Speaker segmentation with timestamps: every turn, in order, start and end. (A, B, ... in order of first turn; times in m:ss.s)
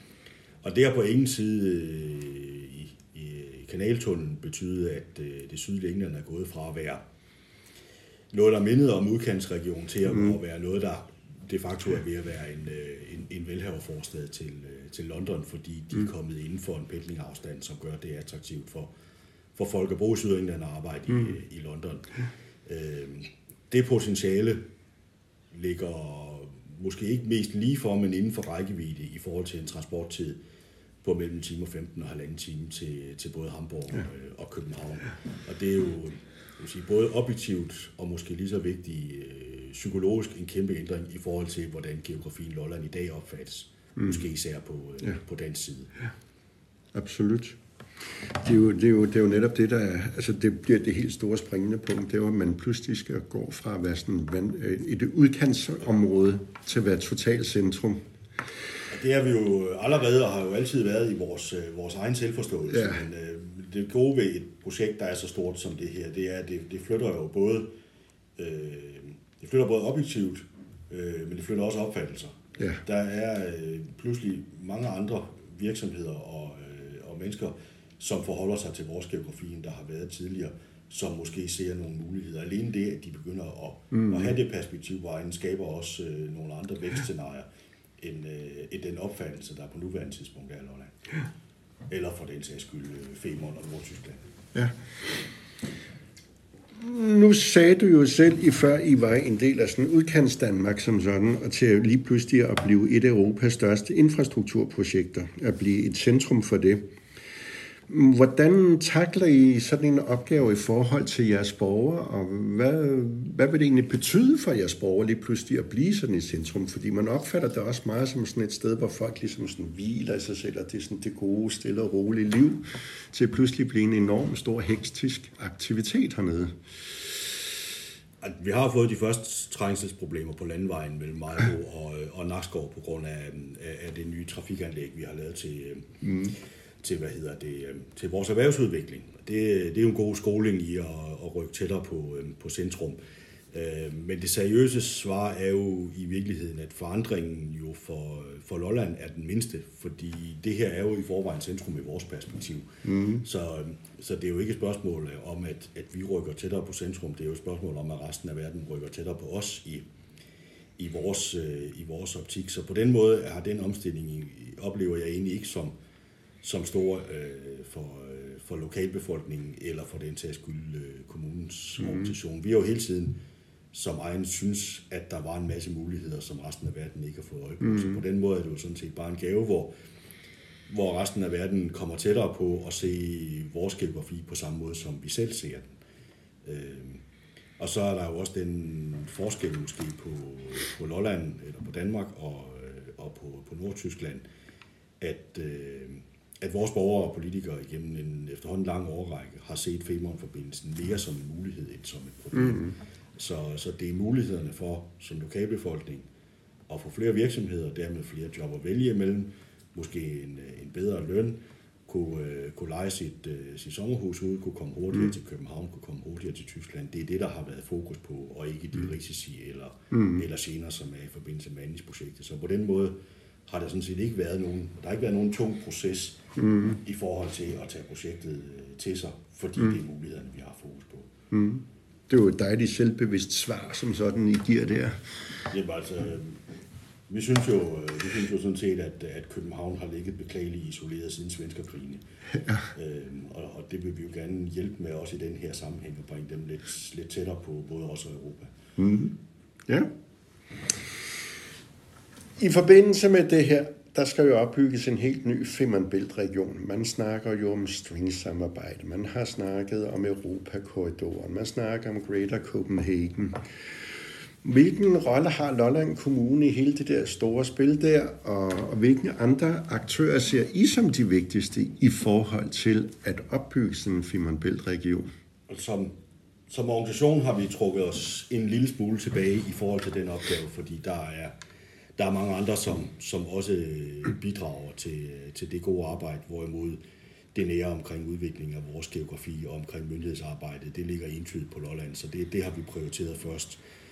0:00.6-0:07.0 A
0:08.3-0:18.9 A
0:19.6-0:22.1 A
0:22.7-0:24.6 A
0:25.5-0:30.4 A
0:31.0-0:45.9 A
0:44.0-0:44.2 B
0:46.9-0:47.6 B
0:48.4-0:58.0 B
0:58.9-1:07.7 A
1:02.7-1:03.1 B
1:08.4-1:27.5 A
1:23.9-1:24.4 B
1:28.0-1:31.0 A
1:31.9-1:34.2 A
1:36.8-1:46.8 B
1:47.9-2:06.5 B
2:08.2-2:15.9 A
2:16.0-2:16.4 B
2:16.8-2:23.0 A
2:23.5-2:39.9 A
2:32.8-2:33.2 B
2:40.8-2:45.8 A
2:46.4-2:53.2 A
2:53.7-2:59.7 A
3:00.7-3:05.7 A
3:06.4-3:07.0 A
3:07.6-3:14.2 A
3:15.0-3:26.1 A
3:22.4-3:22.7 B
3:26.7-3:46.2 A
3:39.9-3:40.2 B
3:46.4-3:46.8 B
3:46.8-3:51.1 A
3:51.3-3:55.2 B
3:55.5-3:56.4 A
3:57.1-4:02.0 A
4:02.7-4:08.5 A
4:08.8-4:09.1 B
4:12.4-4:23.4 B
4:24.4-4:35.1 B
4:35.5-4:36.0 A
4:36.5-4:41.3 A
4:42.0-4:46.8 A
4:47.3-4:53.6 A